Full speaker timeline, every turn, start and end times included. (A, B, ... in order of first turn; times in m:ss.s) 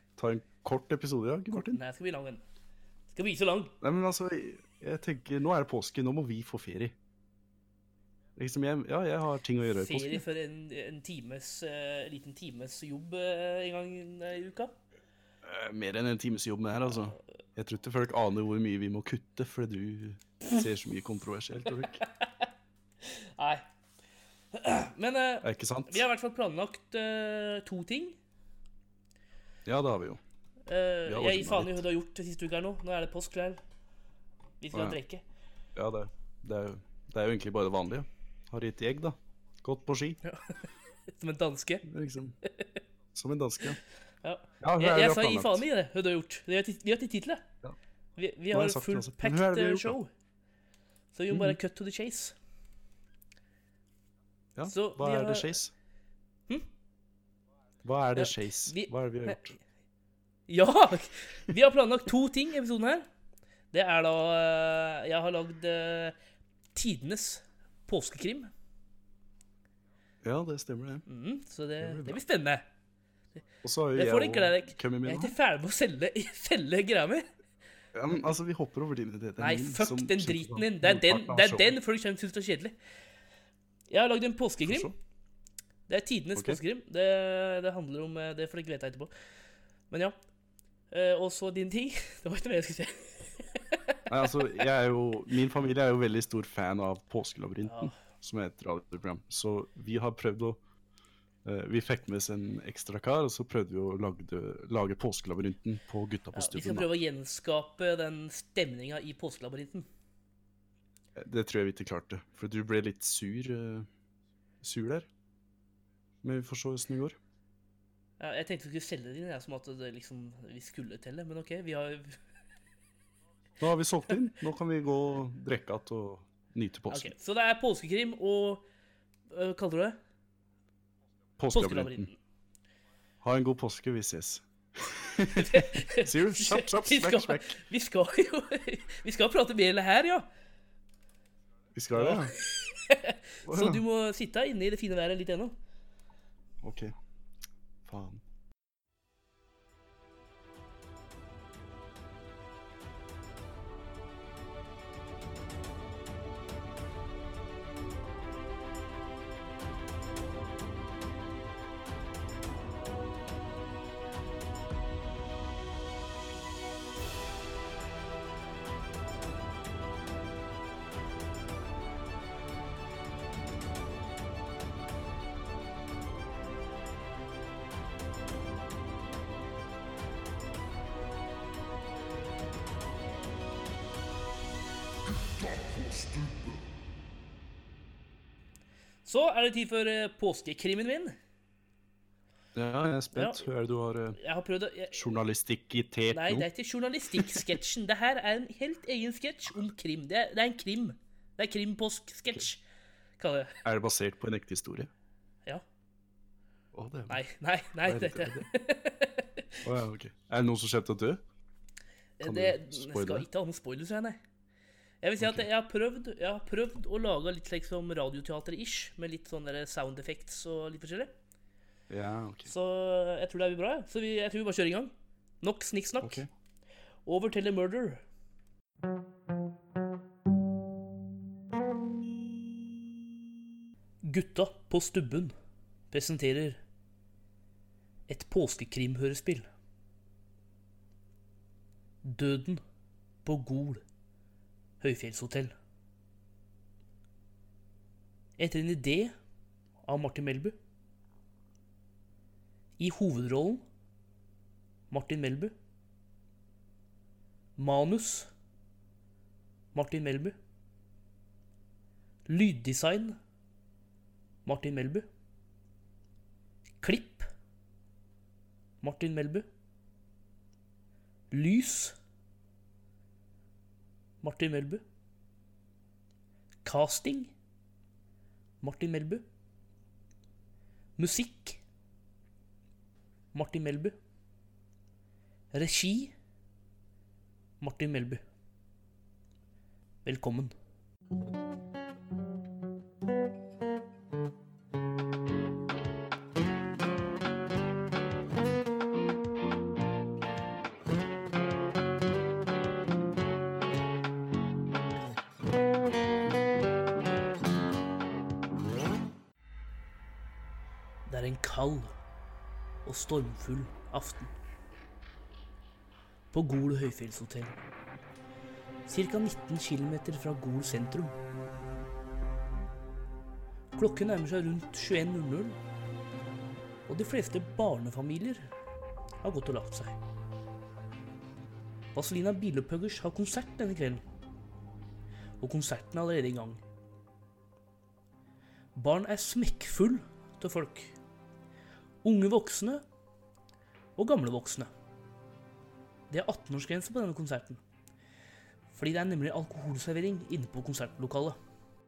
0:00.2-0:01.8 A
0:01.5-0:02.4 B
0:03.1-0:03.8 B
0:03.8-0:07.0 A
0:08.4-0:10.2 A
0:09.7-0:14.8 B
0:15.4-0:22.0 A
0:22.0-0:22.5 B
0:23.0-0:23.6 B
0:24.5-0:28.2 B
0:25.4-0:26.0 A
0:29.6-0:30.2 A
0:30.7-0:33.6 B
0:31.1-0:31.8 A
0:34.6-0:35.2 B
0:34.7-0:35.0 A
0:35.8-0:40.2 A
0:40.3-0:40.6 B
0:41.1-0:41.9 B
0:41.8-0:42.4 A
0:43.1-0:43.8 A
0:44.2-0:47.5 B
0:44.6-0:45.6 A
0:48.2-0:50.1 B
0:48.5-0:50.0 A
0:51.1-0:52.4 B
0:51.3-0:51.6 A
0:54.6-0:55.7 A
0:54.7-0:55.6 B
0:57.8-0:59.6 A
0:58.2-0:59.6 B
1:00.5-1:03.1 B
1:03.7-1:06.2 B
1:06.8-1:08.5 B
1:10.2-1:11.0 A
1:11.1-1:12.6 B
1:11.8-1:12.2 A
1:13.6-1:15.4 A
1:14.0-1:17.3 B
1:17.9-1:21.8 A
1:19.4-1:22.8 B
1:23.9-1:24.9 B
1:24.7-1:25.0 A
1:25.9-1:29.1 B
1:26.4-1:26.6 A
1:29.9-1:30.2 B
1:30.9-1:34.1 B
1:34.1-1:40.6 A
1:37.6-1:38.0 B
1:41.4-1:46.9 A
1:46.3-1:49.9 B
1:51.2-1:53.9 A
1:54.6-1:55.1 A
1:56.2-1:57.2 A
1:58.2-2:02.2 B
2:03.6-2:07.1 A
2:06.9-2:08.6 B
2:09.3-2:10.0 B
2:11.4-2:12.1 A
2:11.5-2:12.2 B
2:13.2-2:17.6 A
2:15.3-2:20.3 B
2:21.8-2:22.4 A
2:21.9-2:25.6 B
2:23.4-2:23.9 A
2:26.6-2:26.9 A
2:27.8-2:28.2 A
3:09.0-3:11.2 B
3:12.6-3:14.2 A
3:13.1-3:13.5 B
3:14.2-3:15.2 B
3:14.9-3:16.5 A
3:16.1-3:22.6 B
3:17.1-3:17.5 A
3:23.2-3:23.6 B
3:23.6-3:24.9 A
3:26.7-3:27.2 A
3:27.1-3:29.6 B
3:27.8-3:28.5 A
3:29.6-3:31.2 A
3:32.2-3:34.2 B
3:32.2-3:33.3 A
3:35.0-3:41.2 B
3:35.2-3:35.5 A
3:41.9-3:42.5 A
3:42.4-3:46.2 B
3:46.0-3:46.3 A
3:47.0-3:48.0 B
3:54.0-3:55.3 B
3:55.9-3:56.6 B
3:58.1-3:59.5 B
4:02.0-4:02.6 B
4:03.2-4:03.8 B
4:04.8-4:05.5 B
4:08.4-4:09.2 B
4:09.9-4:10.6 B
4:12.8-4:13.6 B
4:14.9-4:15.6 B
4:17.6-4:18.3 B
4:19.7-4:20.4 B
4:22.3-4:23.2 B
4:24.5-4:25.1 B
4:26.8-4:27.3 B
4:28.8-4:29.5 B
4:31.3-4:32.0 B
4:34.2-4:34.8 B
4:36.6-4:37.3 B
4:38.6-4:39.2 B
4:41.0-4:41.6 B
4:43.3-4:44.0 B
4:45.5-4:46.1 B
4:47.6-4:48.2 B
4:50.0-4:50.5 B
5:11.1-5:11.9 B
5:12.8-5:14.3 B
5:16.3-5:17.6 B
5:18.9-5:21.2 B
5:23.8-5:25.6 B
5:26.9-5:28.5 B
5:29.2-5:30.0 B
5:31.9-5:34.0 B
5:35.4-5:36.6 B
5:38.8-5:41.0 B
5:42.0-5:42.8 B
5:44.0-5:44.7 B
5:46.1-5:47.6 B
5:48.7-5:51.4 B